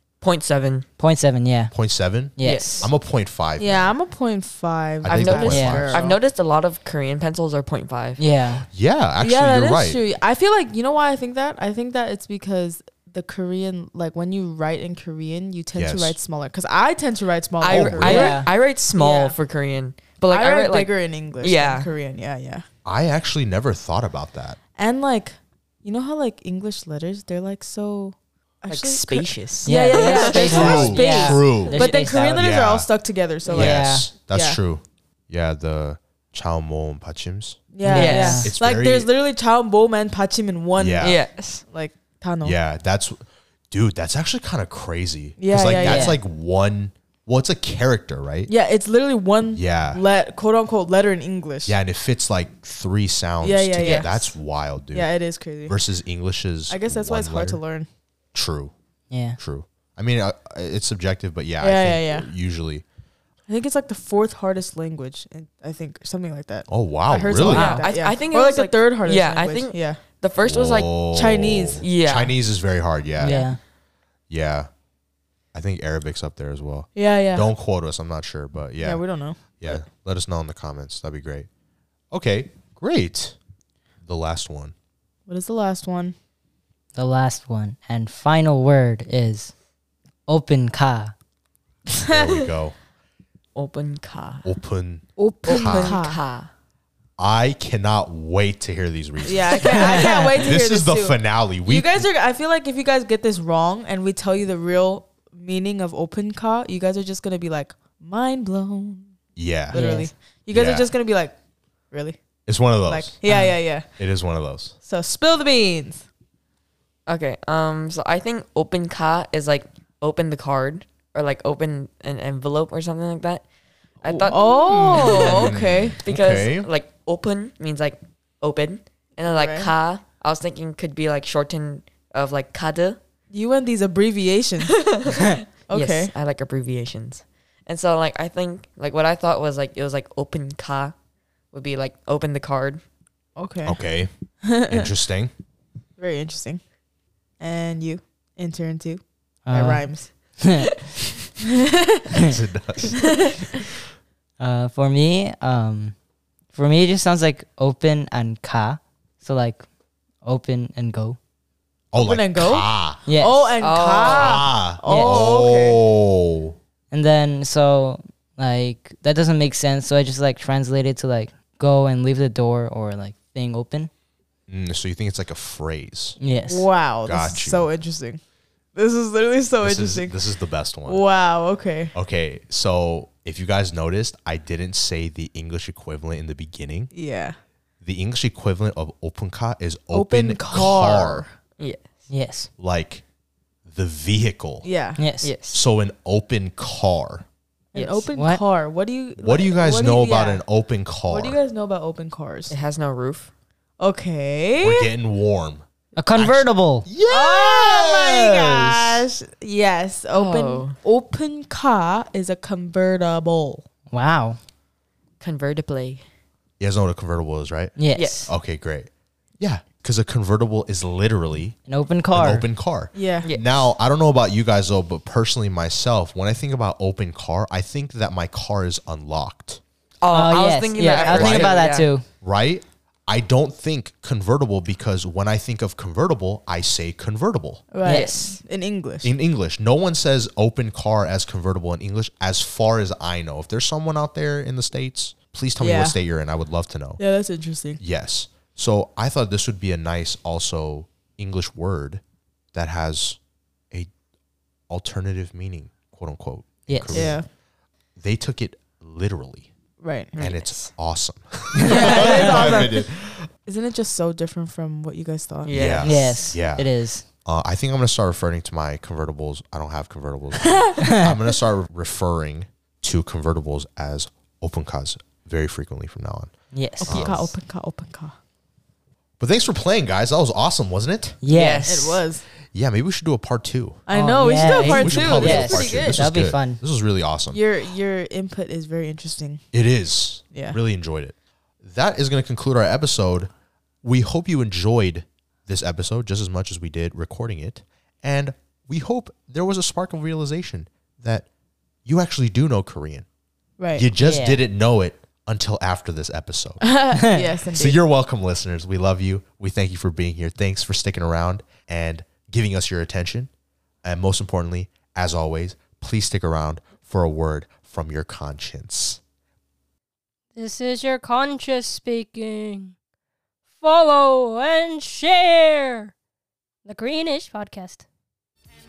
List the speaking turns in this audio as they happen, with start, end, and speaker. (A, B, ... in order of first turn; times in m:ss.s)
0:00.2-0:00.9 A
0:01.0-0:01.7 B
0:01.7-0:03.9 C
0:02.4-0:02.9 B
0:02.4-0:02.9 A
0:03.6-0:06.2 D
0:05.0-0:06.1 C
0:05.1-0:08.2 A
0:05.5-0:05.8 B
0:08.2-0:08.7 B
0:08.7-0:10.0 C
0:09.2-0:19.4 D
0:15.8-0:16.2 C
0:17.6-0:21.9 A
0:17.7-0:18.3 C
0:18.0-0:18.5 B
0:20.3-0:22.7 D
0:22.8-0:24.6 C
0:24.8-0:34.6 D
0:28.7-0:31.3 A
0:29.6-0:32.5 B
0:30.4-0:32.9 C
0:33.5-0:37.6 C
0:33.5-0:34.1 B
0:37.7-0:42.6 D
0:37.8-0:38.5 B
0:37.9-0:38.5 A
0:38.4-0:39.1 C
0:40.8-0:41.2 C
0:41.0-0:41.6 A
0:42.4-0:43.2 C
0:43.7-0:48.5 C
0:45.4-0:46.2 D
0:45.8-0:46.2 B
0:48.5-0:51.8 D
0:49.5-0:50.0 C
0:51.7-0:55.1 C
0:53.4-0:54.3 D
0:53.8-0:54.1 A
0:54.9-0:55.8 D
0:55.7-0:57.6 C
0:56.7-0:57.9 D
0:58.3-0:58.7 C
0:59.1-0:59.4 B
0:59.4-1:02.8 C
1:01.6-1:02.3 D
1:03.5-1:10.0 D
1:06.7-1:07.7 C
1:07.5-1:07.8 B
1:07.5-1:11.0 A
1:10.4-1:13.4 C
1:11.1-1:11.8 D
1:11.8-1:12.4 A
1:13.2-1:13.6 B
1:13.2-1:13.5 D
1:14.3-1:14.7 C
1:15.5-1:21.5 C
1:17.0-1:17.5 D
1:18.8-1:19.4 D
1:22.1-1:23.4 C
1:24.0-1:24.7 C
1:25.3-1:26.2 D
1:27.0-1:29.5 B
1:30.3-1:31.2 B
1:32.0-1:32.8 C
1:33.6-1:34.5 A
1:34.4-1:36.0 C
1:35.2-1:36.2 D
1:35.5-1:36.5 A
1:37.2-1:42.1 C
1:39.2-1:49.1 D
1:39.7-1:40.2 A
1:39.7-1:40.4 B
1:49.4-1:49.8 C
1:49.7-1:51.3 D
1:49.7-1:50.1 B
1:50.5-1:50.9 C
1:51.9-1:52.2 D
1:52.5-1:53.2 C
1:52.8-1:53.9 D
1:53.3-1:53.6 B
1:54.0-1:54.8 C
1:54.8-1:56.1 D
1:57.1-2:03.4 A
2:04.0-2:13.0 A
2:04.1-2:06.0 D
2:04.7-2:06.7 C
2:09.3-2:09.7 D
2:13.3-2:14.7 D
2:14.6-2:20.9 A
2:15.7-2:16.1 D
2:21.5-2:22.8 A
2:23.4-2:23.8 D
2:23.6-2:24.1 C
2:24.4-2:24.9 D
2:24.6-2:25.3 C
2:26.0-2:26.6 D
2:27.4-2:30.1 D
2:29.5-2:30.8 B
2:31.4-2:32.1 D
2:32.2-2:33.6 C
2:34.4-2:36.0 B
2:36.5-2:39.6 B
2:40.2-2:41.2 B
2:41.9-2:43.0 C
2:42.0-2:45.8 D
2:43.1-2:43.5 B
2:43.6-2:44.5 A
2:44.0-2:46.6 C
2:44.9-2:45.3 B
2:46.9-2:53.9 B
2:54.5-2:56.2 C
2:56.2-2:56.7 B
2:56.5-2:58.2 D
2:57.0-2:57.7 C
2:58.8-3:00.2 D
2:59.6-3:01.0 C
3:00.8-3:01.9 D
3:01.9-3:06.9 C
3:06.9-3:07.4 D
3:07.8-3:11.2 C
3:09.9-3:11.3 D
3:11.6-3:11.9 A
3:12.1-3:12.5 B
3:12.6-3:13.0 C
3:13.7-3:14.7 C
3:14.6-3:15.0 D
3:15.0-3:15.3 B
3:15.2-3:15.6 A
3:15.5-3:17.2 C
3:17.7-3:20.4 D
3:17.8-3:18.0 A
3:18.2-3:18.4 B
3:19.2-3:21.4 C
3:21.1-3:22.6 D
3:22.5-3:23.3 A
3:23.8-3:24.9 D
3:24.6-3:29.0 C
3:26.0-3:26.9 B
3:27.1-3:33.6 D
3:30.1-3:30.8 A
3:33.9-3:34.4 B
3:35.2-3:36.0 A
3:36.6-3:37.8 C
3:37.8-3:38.3 B
3:37.9-3:38.3 A
3:38.3-3:41.6 C
3:41.7-3:42.4 B
3:42.1-3:49.6 C
3:42.9-3:43.3 D
3:43.2-3:43.6 A
3:50.0-3:51.9 A
3:50.1-3:52.0 B
3:51.1-3:51.6 C
3:52.2-3:57.7 C
3:57.7-3:59.1 D
3:57.8-3:58.4 B
3:57.8-3:58.4 A
3:59.0-4:07.0 C
4:05.6-4:06.0 D
4:07.0-4:07.8 D
4:07.8-4:12.0 C
4:12.5-4:13.2 C
4:14.7-4:17.2 C
4:16.7-4:17.2 B
4:16.9-4:17.3 D
4:18.0-4:19.5 C
4:19.8-4:20.2 D
4:20.2-4:20.7 A
4:20.2-4:23.3 C
4:21.6-4:22.6 B
4:21.6-4:22.9 D
4:23.5-4:25.6 D
4:25.4-4:26.4 A
4:25.5-4:26.7 C
4:25.8-4:27.0 B
4:27.2-4:36.3 C
4:30.8-4:31.2 B
4:36.5-4:37.1 B
4:36.8-4:38.2 D
4:36.9-4:37.3 C
4:39.2-4:41.2 C
4:41.2-4:42.0 B
4:41.3-4:41.8 A
4:41.6-4:42.2 D
4:42.5-4:43.8 C
4:43.9-4:46.0 D
4:43.9-4:46.6 B
4:44.5-4:47.4 C
4:47.3-4:49.4 D
4:49.5-4:53.3 C
4:53.8-5:01.3 C
5:01.8-5:03.1 C
5:03.6-5:03.9 D
5:03.8-5:06.6 C
5:04.0-5:04.4 B
5:06.6-5:07.8 D
5:07.0-5:07.3 B
5:07.5-5:13.3 C
5:13.8-5:19.0 C
5:20.3-5:22.8 E
5:23.5-5:25.9 E
5:26.6-5:27.8 E